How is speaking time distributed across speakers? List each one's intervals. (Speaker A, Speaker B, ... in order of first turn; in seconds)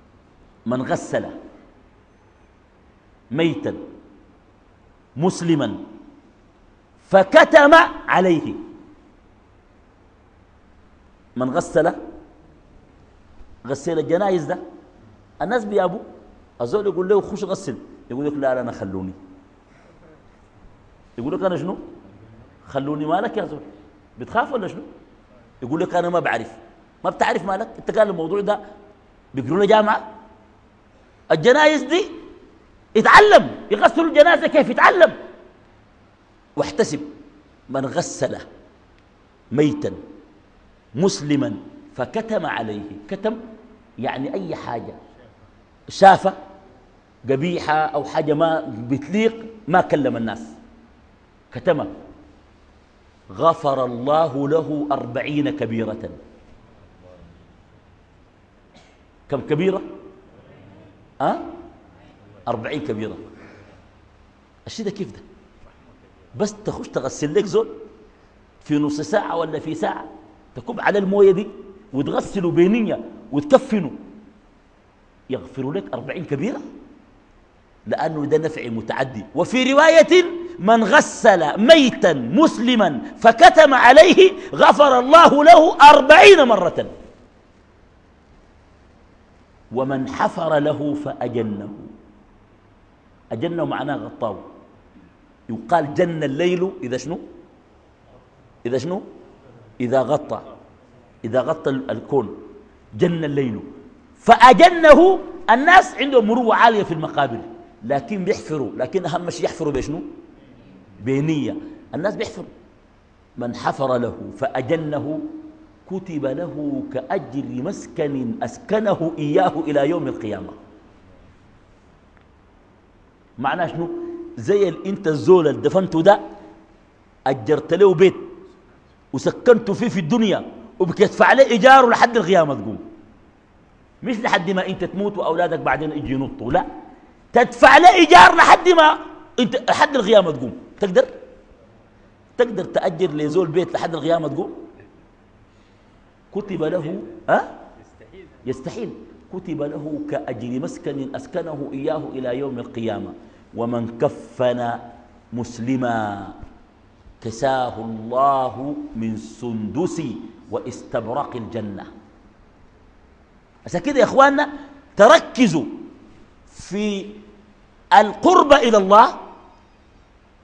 Speaker A: 0.7-1.3, 3.3-3.8, 5.2-5.8, 7.0-8.6, 11.4-12.0, 13.6-14.6, 15.4-16.0, 16.6-19.2, 21.2-21.8, 22.6-23.7, 24.2-24.9, 25.6-28.6, 29.3-30.1, 31.3-32.1, 32.9-35.2, 36.5-37.1, 37.7-38.5, 39.5-40.0, 41.0-43.4, 44.0-45.0, 45.9-46.4, 47.3-50.6, 51.5-51.9, 53.3-56.2, 59.3-59.8, 61.2-61.5, 62.5-63.2, 64.7-65.2, 66.3-67.7, 68.6-74.0, 75.3-76.6, 77.8-86.9, 89.7-91.9, 93.3-94.5, 95.5-97.2, 98.6-99.0, 99.8-100.5, 101.2-102.4, 103.0-103.7, 104.2-110.1, 111.0-112.5, 113.4-115.3, 115.8-120.6, 123.4-126.2, 127.3-128.3, 129.1-132.8, 134.0-136.7, 137.3-141.1, 142.4-144.6, 146.3-147.6, 148.4-156.4, 157.2-161.9, 163.7-165.7, 166.5-167.2, 167.9-169.2